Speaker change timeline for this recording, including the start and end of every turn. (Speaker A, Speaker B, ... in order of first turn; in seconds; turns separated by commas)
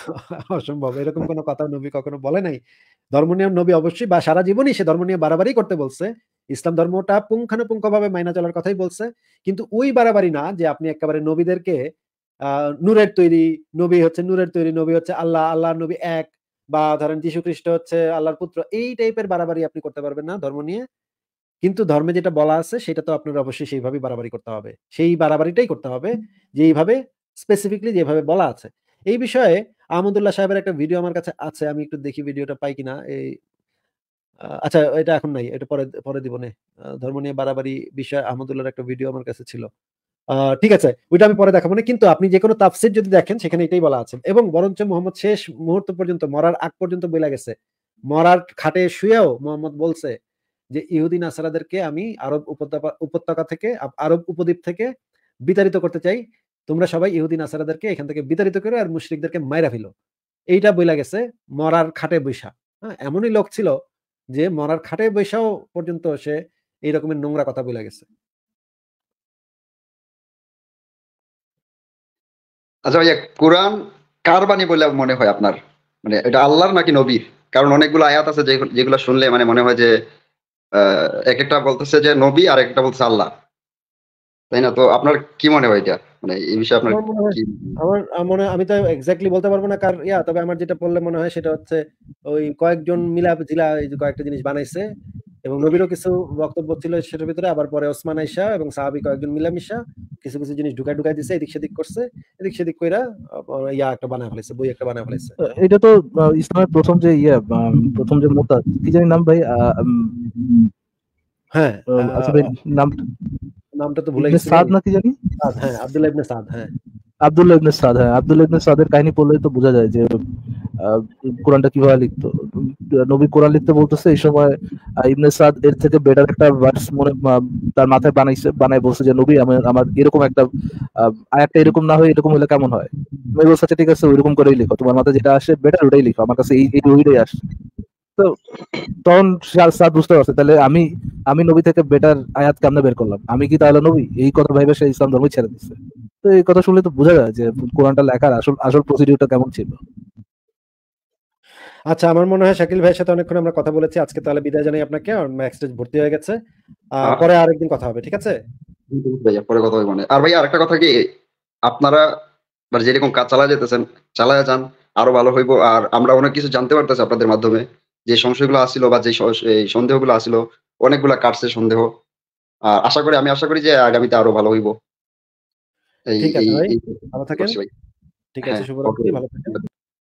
Speaker A: 0.1-2.6, Speaker A: 3.1-11.8, Speaker A: 12.8-20.8, Speaker A: 21.6-33.3, Speaker A: 34.6-39.7, Speaker A: 40.4-47.5, Speaker A: 48.1-50.1, Speaker A: 50.8-54.9, Speaker A: 55.5-59.9, Speaker A: 60.5-63.7, Speaker A: 64.4-68.1, Speaker B: 72.9-79.9, Speaker B: 80.8-83.3, Speaker B: 84.5-87.5, Speaker A: 86.9-91.8, Speaker A: 92.3-94.8, Speaker A: 95.5-105.4, Speaker C: 105.6-110.7, Speaker A: 111.6-112.5, Speaker C: 111.9-113.0, Speaker A: 113.8-114.7, Speaker C: 114.2-115.1, Speaker A: 115.4-116.7, Speaker C: 117.2-120.1, Speaker C: 120.8-130.5, Speaker C: 131.0-137.4, Speaker C: 139.1-149.8, Speaker A: 151.9-156.3, Speaker A: 157.0-158.3, Speaker B: 158.9-160.9, Speaker B: 161.7-162.0, Speaker B: 162.7-171.9, Speaker B: 172.7-174.7, Speaker B: 176.1-177.7, Speaker A: 176.2-177.5, Speaker A: 178.3-179.6, Speaker B: 178.5-179.6